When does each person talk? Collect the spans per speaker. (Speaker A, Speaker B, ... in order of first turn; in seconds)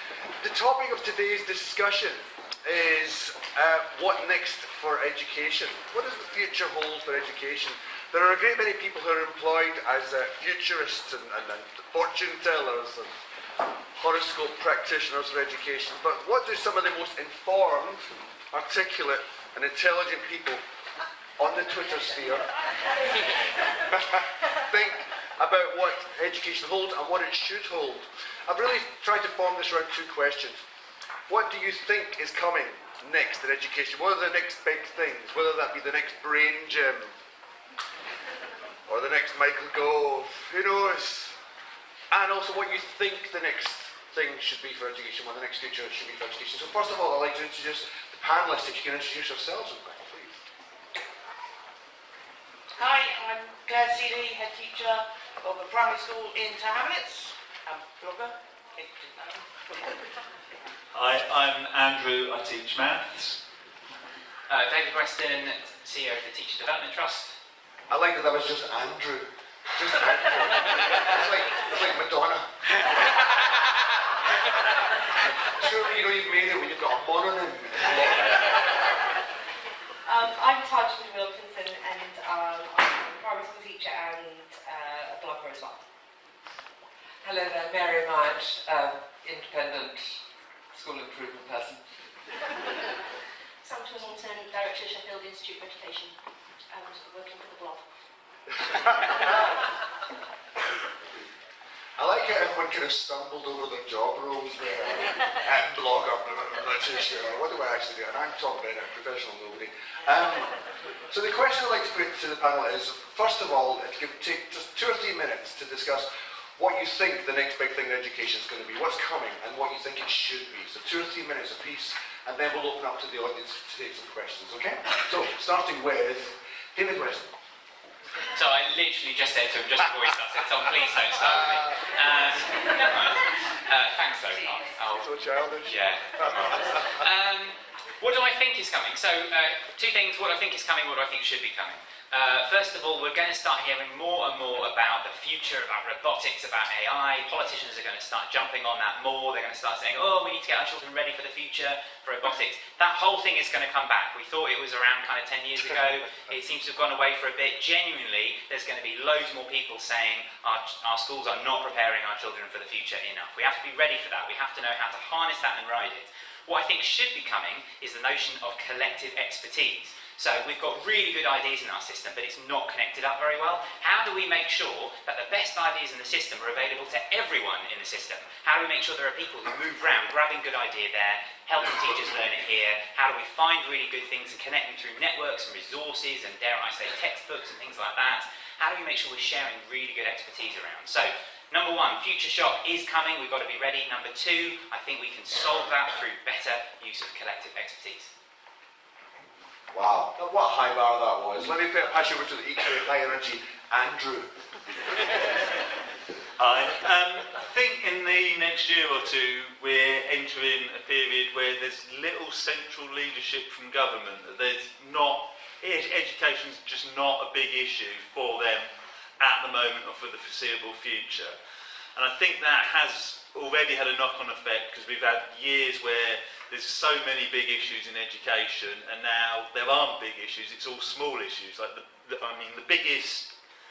Speaker A: 0.4-13.1, 14.0-20.6, 21.4-22.5, 23.8-30.6, 31.3-37.1, 38.9-41.3, 42.1-50.4, 67.9-72.5, 75.5-78.6, 102.0-110.5, 111.1-127.3, 134.9-136.6, 199.7-204.3
Speaker B: 52.8-59.6
Speaker C: 60.9-63.4, 206.4-218.7, 219.2-221.3, 221.9-233.3
Speaker D: 64.5-67.3, 128.3-135.0, 135.6-198.1
Speaker E: 80.1-85.8
Speaker F: 87.2-90.2, 90.7-91.8
Speaker G: 93.6-96.2, 96.7-97.8